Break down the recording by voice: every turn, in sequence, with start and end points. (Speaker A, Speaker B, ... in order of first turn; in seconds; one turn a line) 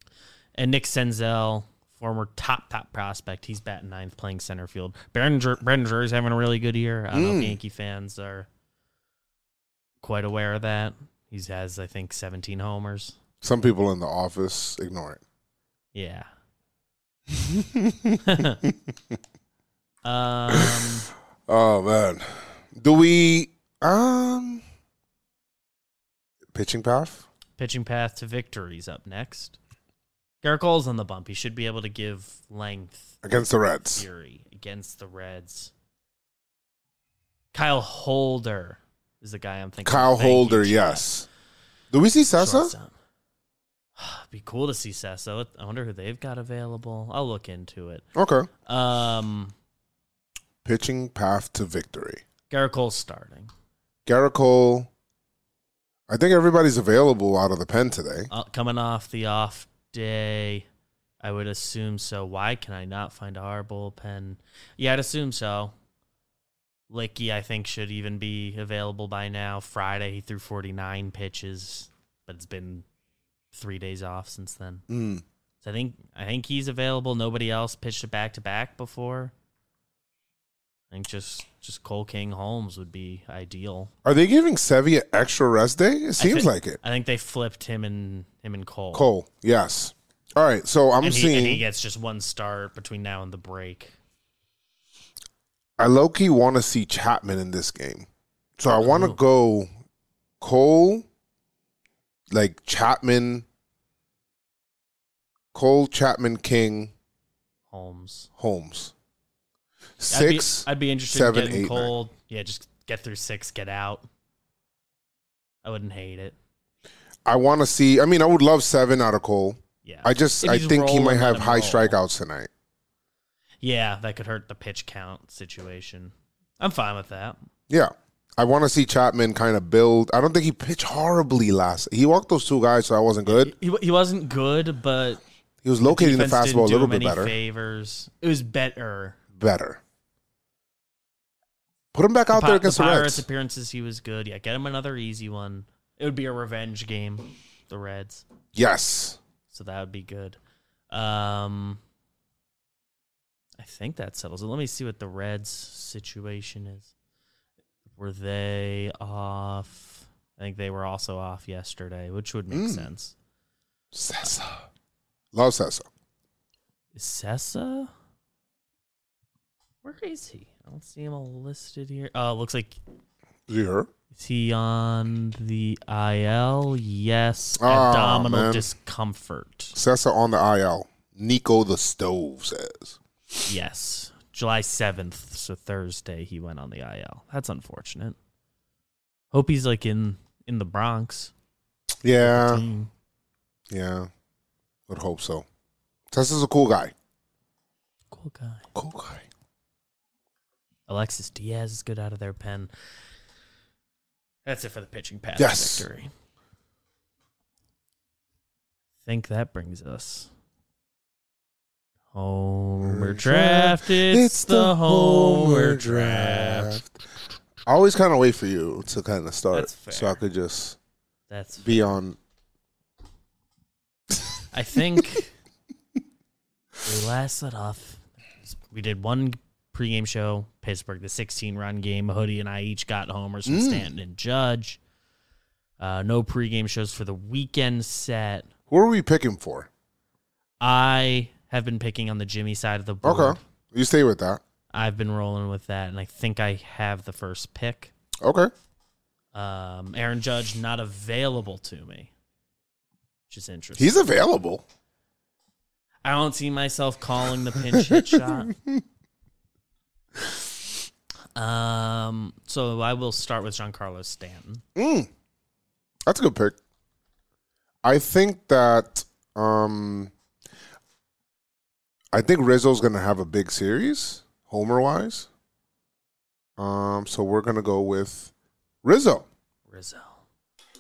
Speaker A: 0.6-8.5
Speaker B: 7.1-7.6
Speaker A: 10.0-13.2
Speaker B: 13.4-15.2
Speaker A: 15.9-16.3
Speaker B: 17.3-18.7
Speaker A: 18.2-18.6
Speaker A: 20.0-21.1
Speaker B: 20.5-20.8
Speaker B: 21.5-24.6
Speaker B: 26.5-27.3
Speaker A: 27.6-29.6
Speaker A: 30.4-33.1
Speaker B: 33.2-34.1
Speaker A: 34.0-35.7
Speaker A: 37.5-41.1
Speaker B: 39.9-41.3
Speaker B: 41.9-42.8
Speaker A: 42.3-42.9
Speaker A: 44.0-48.1
Speaker B: 48.2-48.5
Speaker A: 48.6-49.5
Speaker B: 50.6-52.2
Speaker A: 52.5-53.5
Speaker B: 54.1-54.9
Speaker B: 56.1-58.3
Speaker A: 58.3-60.7
Speaker A: 61.2-65.7
Speaker A: 66.9-72.8
Speaker A: 73.5-74.8
Speaker B: 74.9-75.2
Speaker A: 75.6-79.3
Speaker A: 80.9-83.9
Speaker B: 84.0-86.8
Speaker A: 86.2-89.1
Speaker B: 88.9-91.6
Speaker A: 91.0-94.0
Speaker B: 95.8-98.1
Speaker B: 98.6-99.7
Speaker A: 98.8-99.2
Speaker B: 100.4-101.0
Speaker B: 102.3-103.5
Speaker B: 105.5-106.9
Speaker A: 107.7-108.3
Speaker B: 108.4-108.9
Speaker B: 110.0-111.9
Speaker A: 110.1-114.0
Speaker A: 115.6-116.4
Speaker B: 117.3-122.5
Speaker A: 119.8-122.0
Speaker A: 123.6-127.4
Speaker B: 127.7-133.5
Speaker A: 133.3-135.2
Speaker B: 135.6-137.4
Speaker A: 135.8-139.2
Speaker B: 139.3-139.8
Speaker B: 141.9-143.2
Speaker A: 142.3-148.3
Speaker B: 148.6-149.2
Speaker A: 149.5-150.4
Speaker A: 150.9-151.8
Speaker A: 153.6-156.9
Speaker A: 158.0-163.2
Speaker B: 162.5-162.9
Speaker B: 163.9-164.7
Speaker B: 165.3-165.9
Speaker A: 166.9-167.9
Speaker A: 169.8-172.8
Speaker B: 173.5-173.9
Speaker A: 174.1-179.8
Speaker B: 177.6-178.7
Speaker B: 179.8-183.0
Speaker A: 183.5-188.2
Speaker A: 189.3-191.3
Speaker B: 192.0-192.6
Speaker A: 192.2-192.9
Speaker B: 193.7-194.1
Speaker B: 194.9-195.4
Speaker B: 196.1-196.9
Speaker A: 198.1-198.7
Speaker B: 198.8-199.2
Speaker A: 200.9-202.7
Speaker A: 204.4-206.1
Speaker B: 205.4-205.9
Speaker A: 209.0-210.3
Speaker A: 212.1-216.8
Speaker B: 212.8-216.9
Speaker B: 217.7-220.8
Speaker A: 219.5-220.2
Speaker A: 221.3-222.0
Speaker B: 221.6-222.2
Speaker A: 224.5-225.3
Speaker A: 226.8-234.8
Speaker B: 233.5-233.9
Speaker A: 235.8-238.5
Speaker B: 238.7-239.7
Speaker A: 240.6-243.4
Speaker B: 243.0-244.4
Speaker A: 244.7-247.9
Speaker B: 248.2-248.5
Speaker A: 249.3-252.1
Speaker A: 253.3-254.2
Speaker B: 253.8-254.6
Speaker A: 256.0-258.5
Speaker B: 257.7-258.8
Speaker A: 261.4-264.6
Speaker B: 264.8-265.1
Speaker B: 266.1-266.6
Speaker B: 267.8-270.1
Speaker B: 272.1-275.3
Speaker B: 276.6-278.3
Speaker B: 278.8-279.3
Speaker A: 279.7-280.2